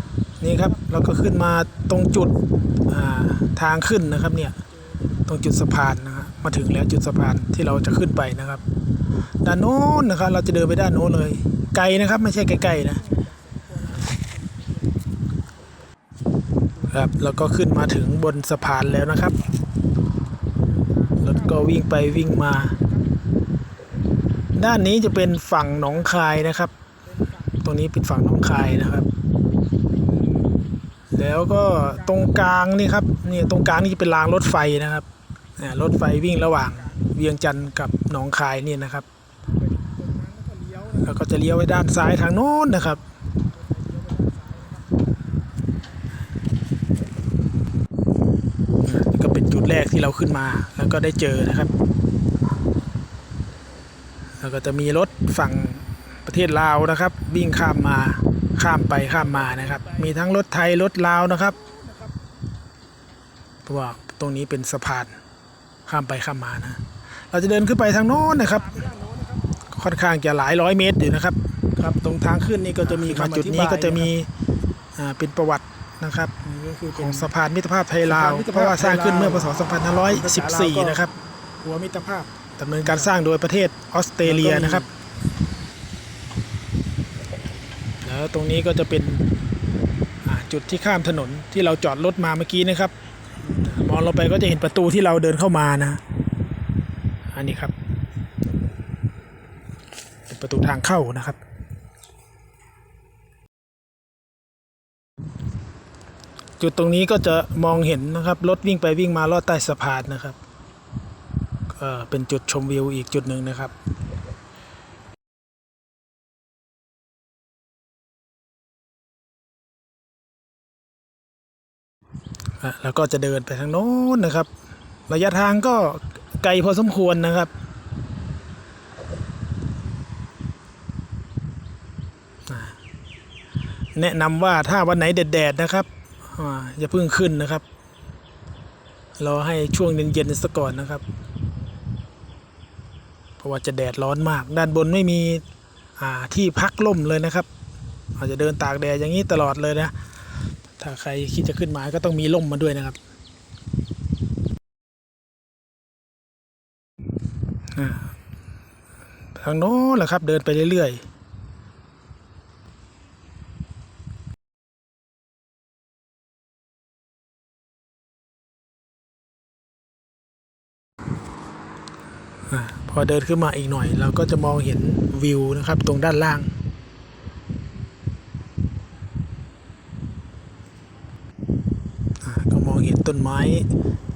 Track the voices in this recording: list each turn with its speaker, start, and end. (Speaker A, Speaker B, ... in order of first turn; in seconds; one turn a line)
Speaker A: 0.4-2.3
Speaker B: 1.6-2.5
Speaker A: 2.9-4.6
Speaker A: 5.3-8.6
Speaker A: 9.4-13.0
Speaker B: 12.0-15.1
Speaker B: 16.7-17.4
Speaker A: 16.9-19.4
Speaker B: 20.6-23.2
Speaker A: 21.2-22.8
Speaker A: 24.6-26.7
Speaker B: 25.8-27.7
Speaker A: 27.6-29.1
Speaker B: 28.4-29.0
Speaker B: 29.9-30.6
Speaker A: 31.1-35.1
Speaker B: 31.8-32.4
Speaker B: 33.3-33.8
Speaker A: 35.6-39.1
Speaker B: 36.4-37.2
Speaker B: 39.5-41.2
Speaker A: 41.0-43.0
Speaker B: 43.4-45.1
Speaker A: 48.9-51.7
Speaker A: 54.4-61.5
Speaker B: 59.1-60.1
Speaker B: 61.4-62.2
Speaker A: 63.7-65.2
Speaker A: 65.9-68.7
Speaker B: 68.2-69.5
Speaker A: 69.7-74.3
Speaker B: 72.8-74.1
Speaker A: 75.0-81.1
Speaker B: 76.5-77.3
Speaker B: 78.1-81.0
Speaker B: 81.6-82.3
Speaker A: 82.5-84.9
Speaker B: 82.8-83.1
Speaker B: 84.2-84.9
Speaker A: 88.0-89.3
Speaker A: 90.2-92.9
Speaker A: 93.6-96.0
Speaker A: 97.3-97.8
Speaker A: 100.3-101.4
Speaker A: 106.6-110.4
Speaker A: 111.7-113.7
Speaker A: 122.6-124.5
Speaker A: 125.1-127.5
Speaker A: 132.5-132.8
Speaker A: 134.0-137.6
Speaker A: 139.2-141.0
Speaker A: 143.4-145.4
Speaker A: 146.0-147.5
Speaker A: 148.2-149.9
Speaker A: 150.8-153.0
Speaker A: 157.8-158.1
Speaker A: 159.4-161.0
Speaker A: 172.5-176.5
Speaker A: 182.2-183.7